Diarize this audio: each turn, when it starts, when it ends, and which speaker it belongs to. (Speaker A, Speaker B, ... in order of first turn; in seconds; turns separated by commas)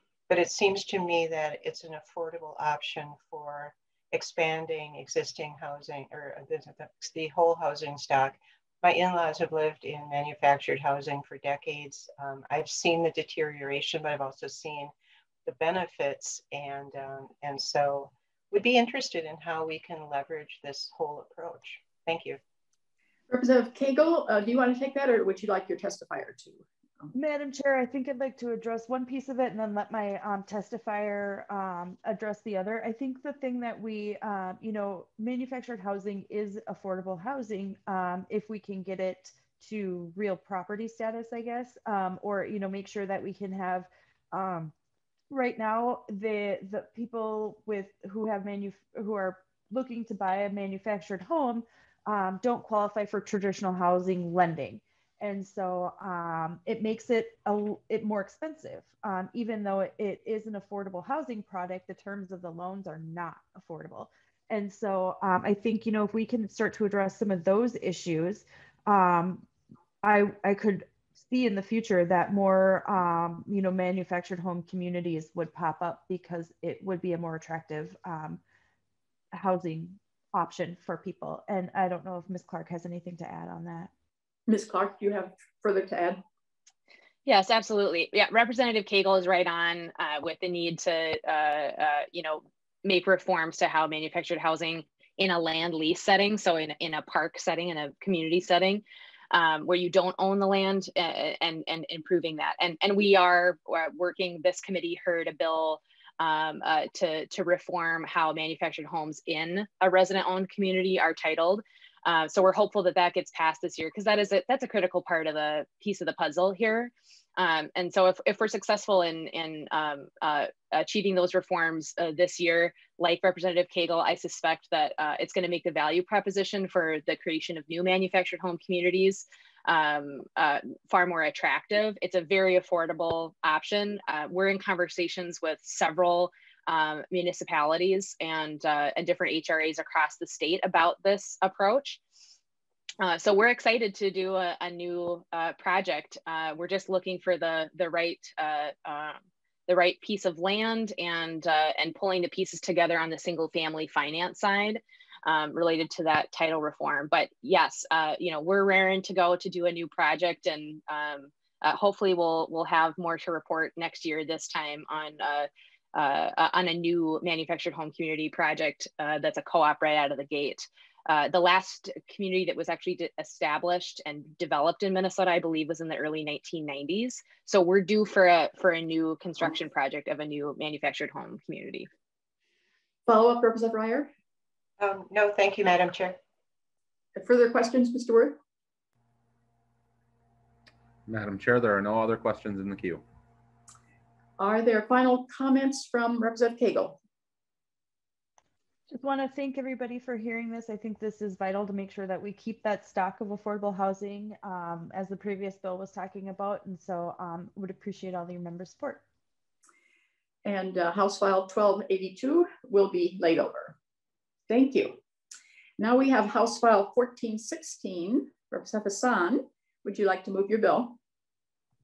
Speaker A: 0.3-14.9, Speaker A: 15.4-22.4, Speaker B: 23.3-27.1, Speaker C: 27.1-44.7, Speaker C: 45.3-69.5, Speaker C: 70.0-78.4, Speaker C: 79.3-83.9, Speaker B: 84.5-86.2, Speaker D: 87.3-142.0, Speaker D: 143.0-181.9, Speaker B: 183.1-184.1, Speaker A: 184.8-186.2, Speaker B: 187.2-188.4, Speaker E: 191.1-193.0, Speaker B: 194.4-197.0, Speaker C: 198.9-209.0, Speaker B: 210.4-213.8, Speaker B: 214.5-215.0, Speaker B: 215.8-221.0